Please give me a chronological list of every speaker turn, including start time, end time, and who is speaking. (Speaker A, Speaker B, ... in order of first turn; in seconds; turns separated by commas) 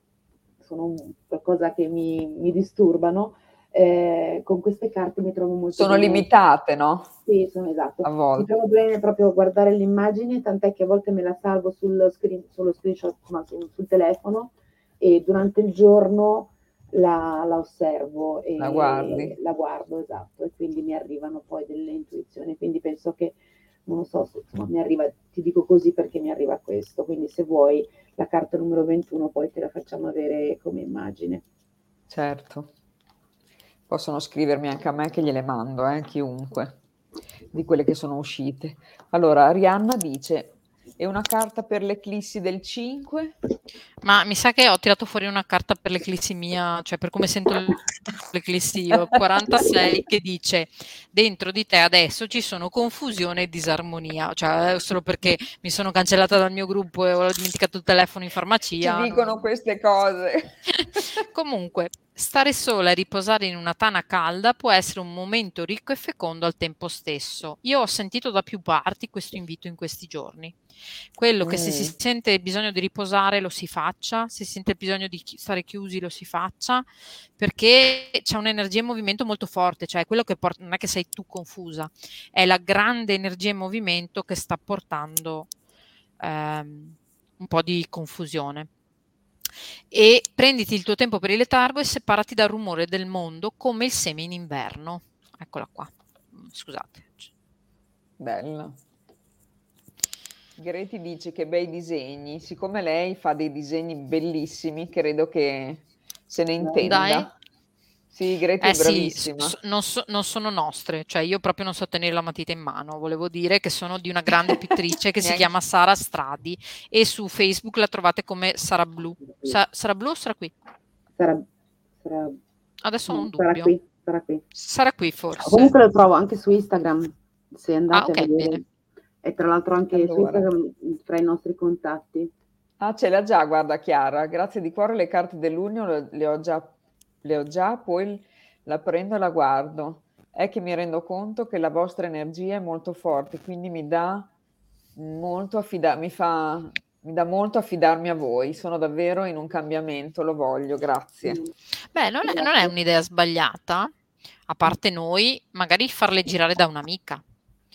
Speaker A: 0.6-6.3, Speaker B: 5.7-7.1, Speaker A: 7.2-31.4, Speaker B: 8.0-8.5, Speaker B: 18.6-19.4, Speaker B: 32.1-32.7, Speaker B: 33.9-36.8, Speaker B: 37.5-43.3, Speaker C: 44.0-59.3, Speaker B: 58.8-61.0, Speaker C: 60.7-70.6, Speaker C: 71.2-85.5, Speaker B: 71.4-71.9, Speaker C: 86.2-88.7, Speaker C: 89.9-97.3, Speaker B: 98.2-98.8, Speaker B: 100.6-107.3, Speaker A: 106.6-106.9, Speaker C: 106.8-107.3, Speaker B: 108.1-109.5, Speaker C: 108.6-120.5, Speaker B: 115.2-115.5, Speaker A: 119.3-119.6, Speaker A: 121.2-121.5, Speaker A: 122.0-122.4, Speaker C: 122.8-123.7, Speaker A: 123.1-124.4, Speaker C: 124.5-125.7, Speaker A: 125.4-128.6, Speaker C: 127.9-128.6, Speaker A: 129.2-132.3, Speaker B: 129.9-130.5, Speaker B: 132.8-136.7, Speaker B: 137.2-144.3, Speaker B: 144.9-151.4, Speaker A: 151.2-151.5, Speaker C: 151.9-153.9, Speaker A: 152.2-152.7, Speaker C: 154.5-157.2